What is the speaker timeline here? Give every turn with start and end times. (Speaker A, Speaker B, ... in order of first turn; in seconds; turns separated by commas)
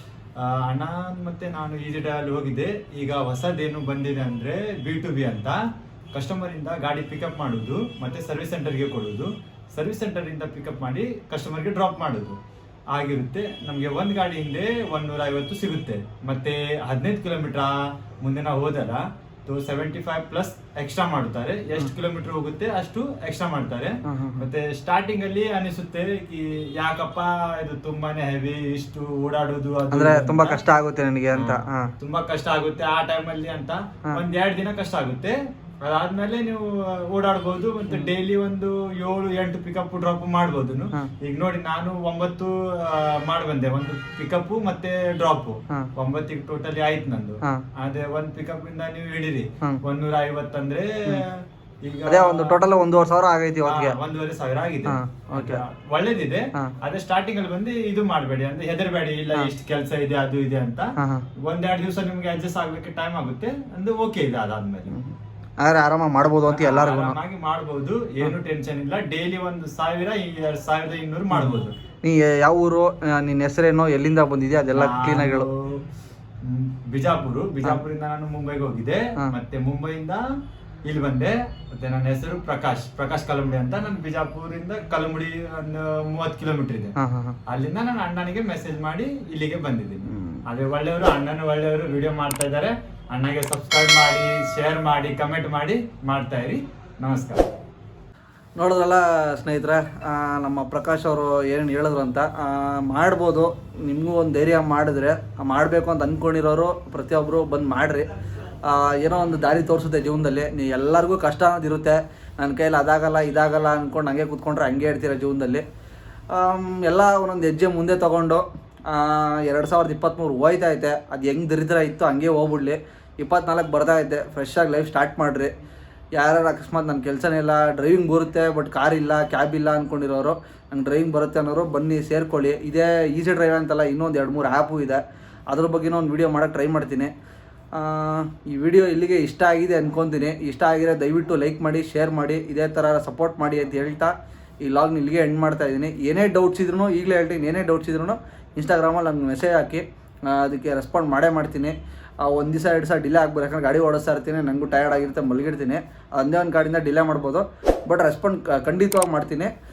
Speaker A: 0.4-5.6, Speaker A: 6.1-12.4, Speaker A: 12.9-30.6, Speaker B: 24.1-24.5, Speaker B: 29.9-31.9, Speaker A: 31.3-52.8, Speaker B: 52.1-54.0, Speaker A: 53.6-65.0, Speaker B: 54.9-55.6, Speaker B: 61.0-61.2, Speaker B: 64.9-67.2, Speaker A: 66.5-71.8, Speaker B: 71.3-75.5, Speaker A: 74.7-75.8, Speaker A: 76.4-80.2, Speaker A: 80.8-86.9, Speaker B: 87.0-87.4, Speaker A: 87.5-97.5, Speaker B: 90.1-90.4, Speaker B: 98.6-108.1, Speaker B: 108.6-115.7, Speaker B: 116.3-125.5, Speaker B: 126.2-137.1, Speaker B: 137.7-159.5